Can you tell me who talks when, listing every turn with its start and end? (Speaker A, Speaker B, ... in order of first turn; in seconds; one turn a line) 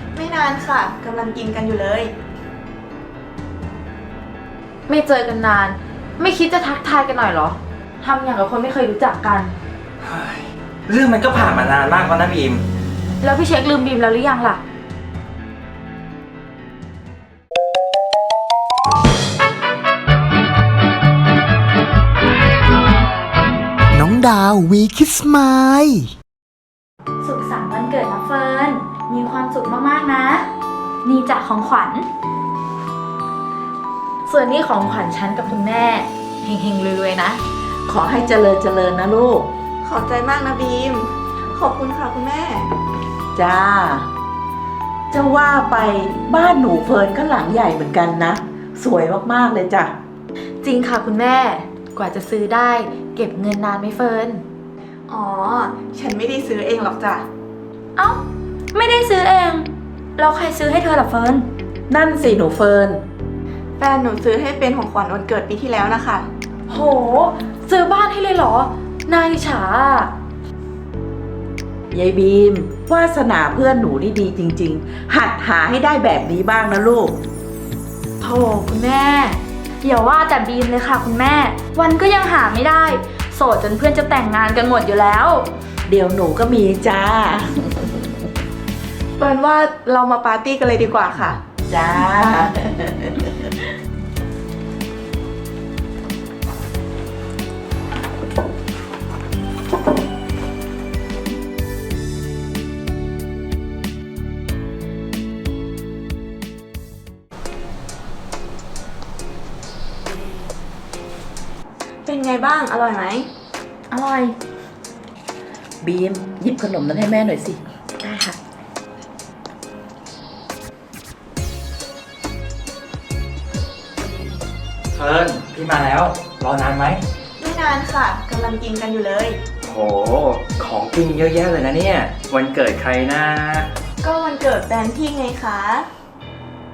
Speaker A: 0.1-2.1
Speaker B: 4.9-9.5
Speaker C: 10.0-12.6
Speaker B: 13.2-14.6
Speaker D: 23.9-25.9
Speaker B: 27.2-30.5
Speaker B: 31.0-32.1
Speaker B: 34.2-37.4
Speaker E: 37.9-39.5
Speaker A: 39.8-42.7
Speaker E: 43.4-44.1
Speaker E: 45.1-49.9
Speaker B: 50.6-54.4
Speaker A: 55.1-57.2
Speaker B: 58.0-58.2
Speaker B: 58.7-61.5
Speaker E: 61.9-63.0
Speaker A: 63.8-66.2
Speaker B: 66.7-70.1
Speaker E: 71.9-77.2
Speaker B: 78.2-85.5
Speaker E: 85.9-88.0
Speaker A: 89.2-91.4
Speaker E: 91.7-93.5
Speaker A: 112.0-113.3
Speaker B: 113.9-114.3
Speaker E: 115.8-117.6
Speaker B: 118.0-118.3
Speaker C: 124.9-127.0
Speaker A: 127.4-129.4
Speaker C: 129.6-133.7
Speaker A: 134.0-135.9